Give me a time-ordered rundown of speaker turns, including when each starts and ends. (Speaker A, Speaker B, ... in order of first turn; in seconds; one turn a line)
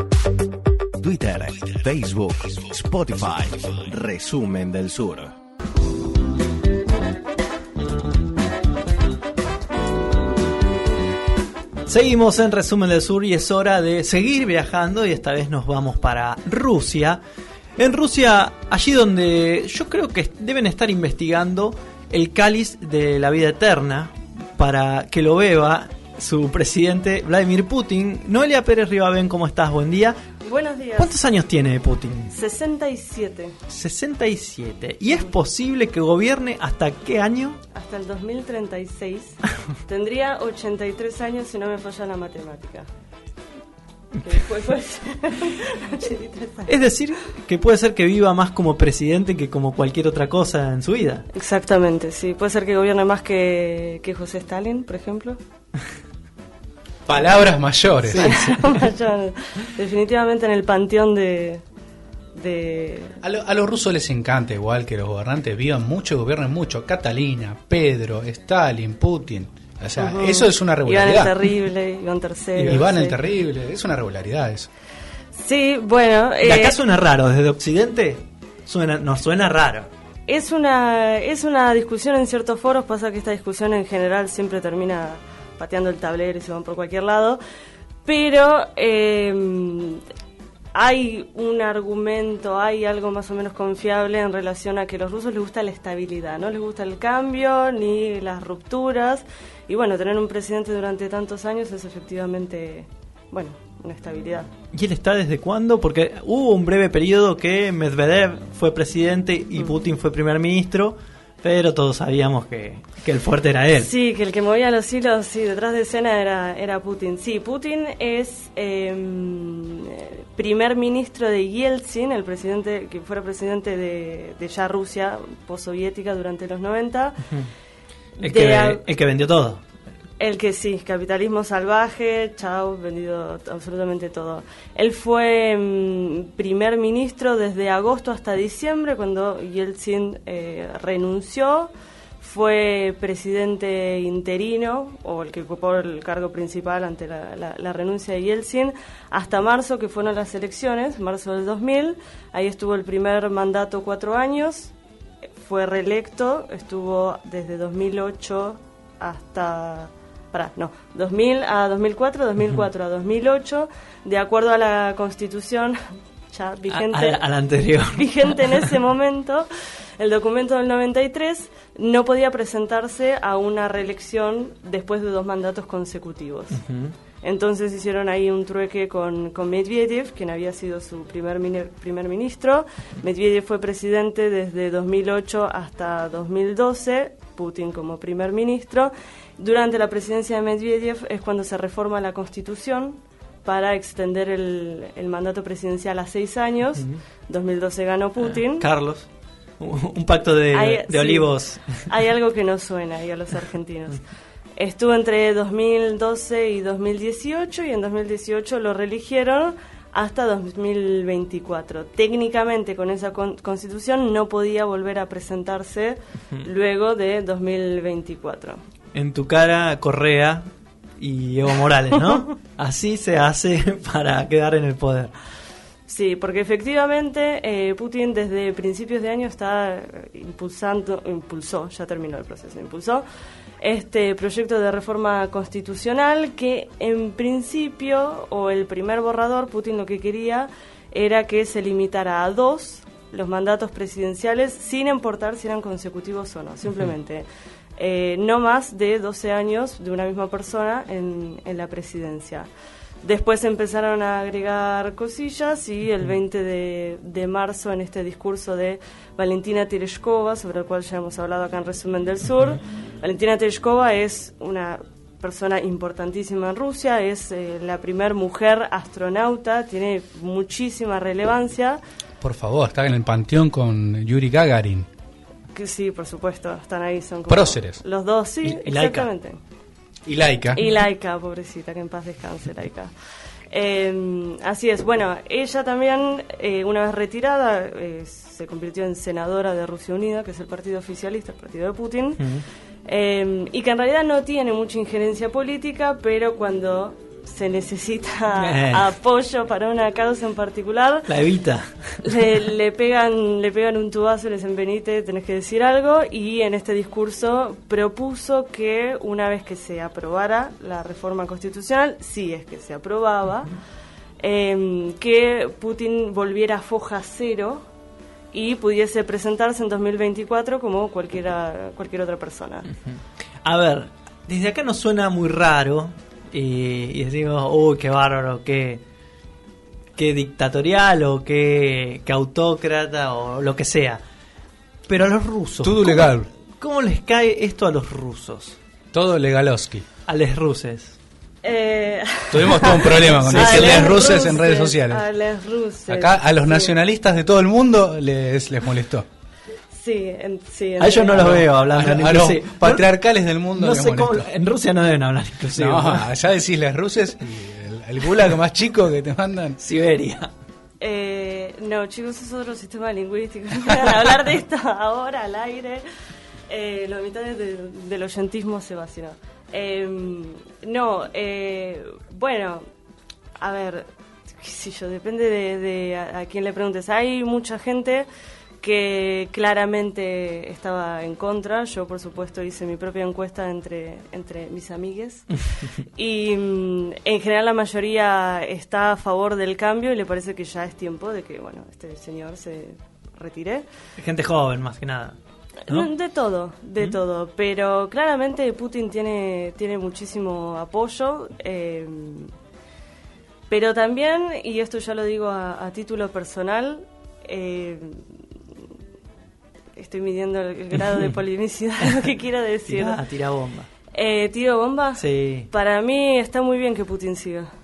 Speaker A: 1.0-5.3
Speaker B: 11.9-17.2
Speaker B: 17.8-30.2
Speaker C: 30.4-31.2
Speaker B: 31.0-32.3
Speaker C: 32.3-33.6
Speaker B: 33.7-37.6
Speaker C: 37.7-42.9
Speaker C: 44.1-46.7
Speaker B: 46.6-51.3
Speaker C: 51.3-55.4
Speaker D: 57.1-58.4
Speaker B: 58.1-58.8
Speaker C: 58.1-61.6
Speaker C: 62.4-63.2
Speaker D: 63.2-71.3
Speaker C: 70.0-73.2
Speaker B: 72.6-72.8
Speaker D: 72.6-74.7
Speaker C: 75.3-76.8
Speaker B: 76.4-79.9
Speaker C: 80.3-87.4
Speaker C: 88.0-90.0
Speaker C: 90.7-104.5
Speaker B: 104.7-113.9
Speaker C: 113.8-127.3
Speaker C: 128.2-128.8
Speaker B: 128.2-129.6
Speaker C: 130.2-154.7
Speaker C: 155.4-165.8
Speaker C: 166.3-167.2
Speaker B: 166.7-168.7
Speaker C: 167.8-176.6
Speaker B: 176.6-176.9
Speaker C: 177.2-198.7
Speaker B: 198.2-199.1
Speaker B: 199.6-201.9
Speaker C: 200.5-204.0
Speaker C: 204.6-218.6
Speaker B: 218.9-220.4
Speaker B: 221.0-225.1
Speaker C: 225.9-233.0
Speaker C: 233.6-247.2
Speaker C: 247.8-252.5
Speaker C: 253.0-271.8
Speaker D: 272.2-274.9
Speaker C: 275.5-279.4
Speaker D: 277.3-277.8
Speaker B: 278.4-279.1
Speaker D: 280.1-280.6
Speaker C: 280.5-282.9
Speaker C: 283.5-292.3
Speaker C: 292.9-301.1
Speaker B: 298.4-298.9
Speaker B: 301.1-302.1
Speaker C: 302.0-313.6
Speaker C: 314.2-317.6
Speaker C: 318.3-322.7
Speaker B: 322.8-328.8
Speaker B: 329.9-334.0
Speaker B: 334.9-338.6
Speaker D: 335.6-336.3
Speaker D: 338.9-339.8
Speaker B: 340.1-340.9
Speaker C: 341.4-346.7
Speaker D: 342.3-345.0
Speaker B: 342.8-343.9
Speaker D: 345.9-349.1
Speaker C: 349.7-351.5
Speaker B: 350.8-352.9
Speaker D: 351.2-354.2
Speaker B: 353.6-356.1
Speaker D: 355.6-359.6
Speaker B: 359.6-360.3
Speaker C: 360.8-365.8
Speaker C: 366.5-372.6
Speaker C: 373.4-378.1
Speaker C: 378.6-393.6
Speaker B: 394.0-395.2
Speaker C: 395.6-402.3
Speaker C: 403.5-408.0
Speaker C: 409.8-413.0
Speaker B: 412.7-413.7
Speaker C: 413.9-417.5
Speaker B: 415.0-415.5